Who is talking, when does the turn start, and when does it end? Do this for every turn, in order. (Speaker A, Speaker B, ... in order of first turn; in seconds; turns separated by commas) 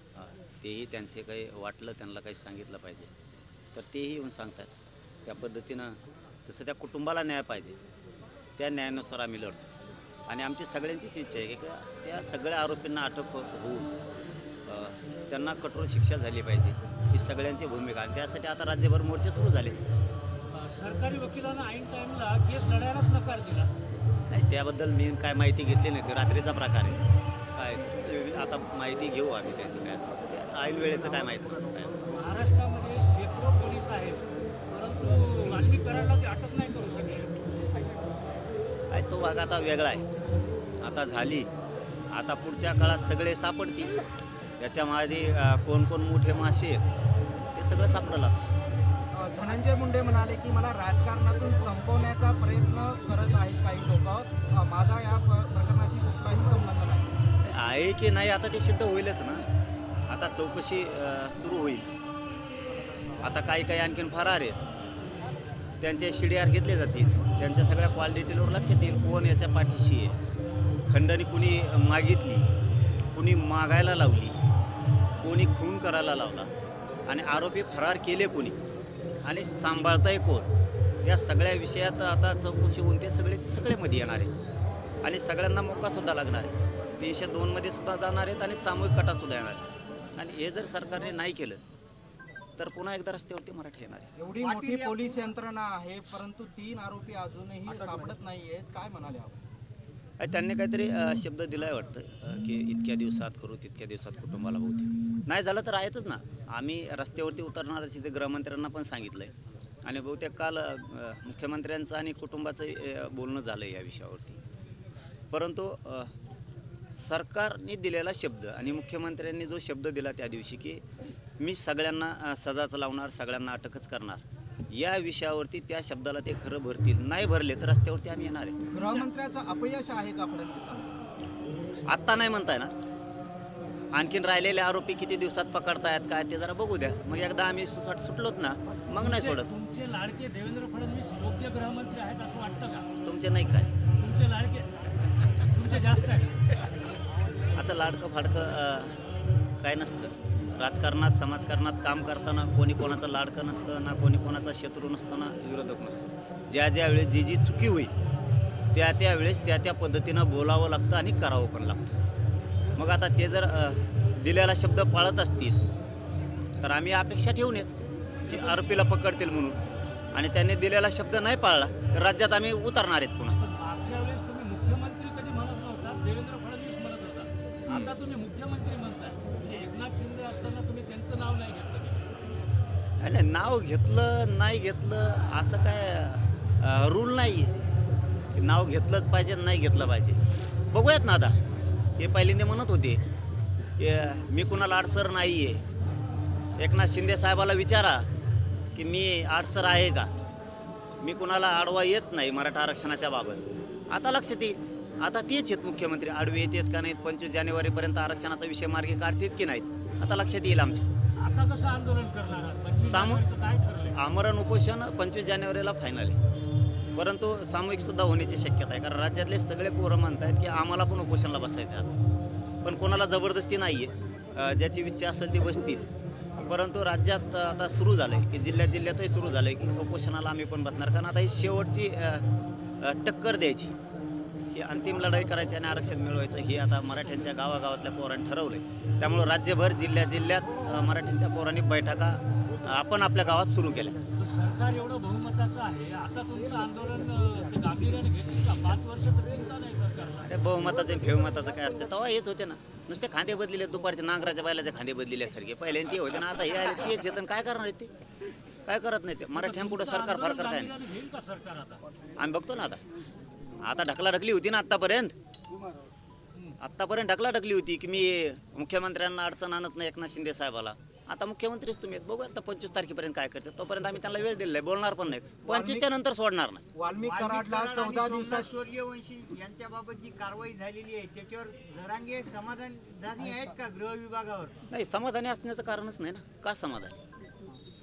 Speaker A: 0.1-3.1, Speaker A: 3.7-4.7, Speaker A: 5.2-7.8, Speaker A: 8.6-9.7, Speaker A: 10.3-13.9, Speaker A: 14.7-19.8, Speaker B: 20.5-23.7, Speaker A: 24.3-27.0, Speaker A: 27.5-32.1, Speaker B: 32.1-37.4, Speaker A: 38.9-40.0, Speaker A: 40.8-41.5, Speaker A: 42.1-44.0, Speaker A: 44.6-46.9, Speaker A: 47.5-48.3, Speaker C: 49.1-57.1, Speaker A: 57.5-59.5, Speaker A: 60.1-61.9, Speaker A: 63.2-64.6, Speaker A: 65.8-70.2, Speaker A: 70.9-72.5, Speaker A: 73.1-74.3, Speaker A: 75.2-76.5, Speaker A: 77.1-78.6, Speaker A: 79.2-80.5, Speaker A: 81.0-84.3, Speaker A: 85.0-91.6, Speaker A: 92.6-94.1, Speaker C: 94.2-99.4, Speaker D: 94.4-95.3, Speaker A: 100.2-109.3, Speaker A: 109.8-114.4, Speaker A: 115.3-116.1, Speaker A: 116.9-120.8, Speaker A: 121.4-128.6, Speaker C: 128.7-131.0, Speaker A: 131.9-132.7, Speaker A: 133.9-139.5, Speaker B: 139.0-142.9, Speaker A: 143.0-143.7, Speaker B: 144.0-144.7, Speaker B: 145.4-146.4, Speaker A: 147.6-149.0, Speaker A: 149.6-157.9, Speaker A: 158.7-161.9, Speaker A: 162.8-165.6, Speaker A: 166.6-167.7, Speaker A: 168.3-169.6, Speaker B: 168.3-168.6, Speaker A: 170.1-173.4, Speaker B: 173.4-182.1, Speaker A: 183.0-187.5, Speaker A: 188.3-190.2, Speaker A: 190.7-191.3, Speaker A: 192.0-193.0, Speaker A: 193.8-195.6, Speaker A: 196.6-198.1, Speaker A: 198.8-200.1, Speaker A: 201.0-210.9, Speaker B: 211.2-214.0, Speaker A: 212.8-213.2, Speaker A: 213.9-216.2, Speaker A: 216.9-221.9, Speaker A: 222.6-225.8, Speaker A: 226.4-232.2, Speaker A: 232.8-233.7, Speaker A: 234.5-244.0, Speaker B: 244.2-250.3, Speaker A: 250.2-257.9, Speaker A: 258.6-260.8, Speaker B: 259.3-261.8, Speaker A: 262.2-262.8, Speaker A: 263.6-265.1, Speaker A: 266.6-276.6, Speaker C: 275.4-275.9, Speaker C: 276.7-278.5, Speaker D: 277.0-284.6, Speaker A: 284.7-287.0